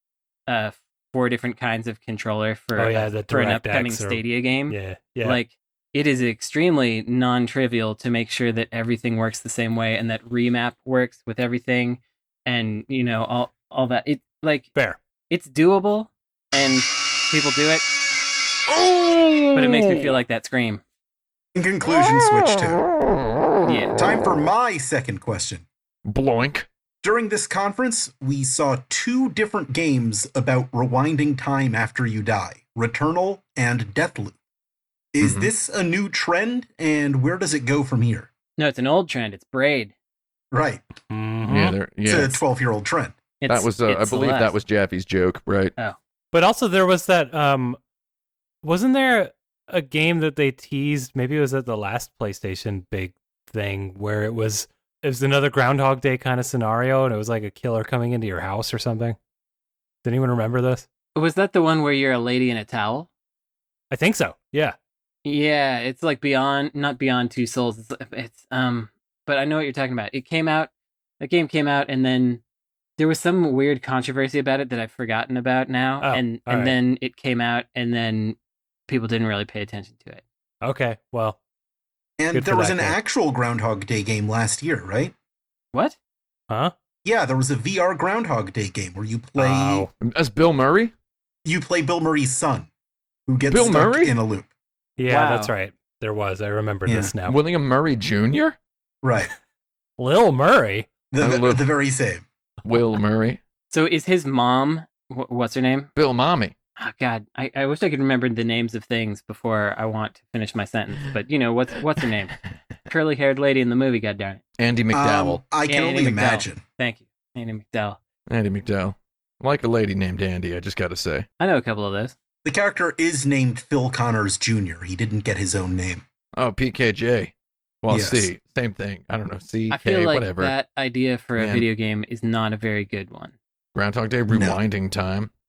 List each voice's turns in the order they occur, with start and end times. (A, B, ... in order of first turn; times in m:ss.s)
0:00.5-0:14.7 A
0:02.7-0:05.4 B
0:15.3-0:17.9 A
0:18.7-0:20.1 C
0:19.5-0:20.8 A
0:21.5-0:22.8 D
0:23.6-0:24.0 A
0:24.0-0:25.6 D
0:26.0-0:26.7 C
0:27.0-0:34.3 D
0:35.1-0:38.3 D
0:35.2-0:35.5 C
0:38.6-0:39.9 A
0:40.5-0:40.8 D
0:41.1-0:41.8 B
0:41.5-0:42.4 C
0:42.0-0:43.2 D
0:43.4-0:44.5 A
0:43.5-0:45.7 C
0:46.3-0:47.8 B
0:48.6-0:59.2 B
1:00.0-1:00.8 B
1:01.1-1:03.1 A
1:03.9-1:04.7 B
1:05.2-1:12.4 A
1:13.0-1:18.4 A
1:16.0-1:16.7 B
1:18.9-1:20.2 A
1:20.6-1:21.4 B
1:22.2-1:25.1 D
1:22.3-1:23.0 B
1:27.0-1:29.9 D
1:29.4-1:29.9 B
1:30.0-1:30.9 C
1:31.4-1:32.7 D
1:33.3-1:34.5 D
1:33.5-1:34.1 C
1:35.0-1:37.4 B
1:35.1-1:35.5 A
1:36.8-1:37.1 D
1:37.2-1:38.6 C
1:39.0-1:39.3 D
1:40.0-1:40.9 B
1:41.1-1:42.2 D
1:41.2-1:41.6 C
1:42.6-1:43.4 C
1:43.7-1:45.9 A
1:46.0-1:46.5 C
1:46.8-1:52.3 A
1:52.9-1:54.4 A
1:54.6-1:55.4 C
1:54.9-1:56.6 D
1:55.7-1:58.0 A
1:58.3-2:01.3 C
2:01.4-2:02.1 A
2:02.4-2:06.0 D
2:06.3-2:10.5 C
2:07.9-2:08.3 D
2:09.7-2:13.4 A
2:11.4-2:11.6 C
2:13.7-2:15.3 C
2:14.3-2:14.6 D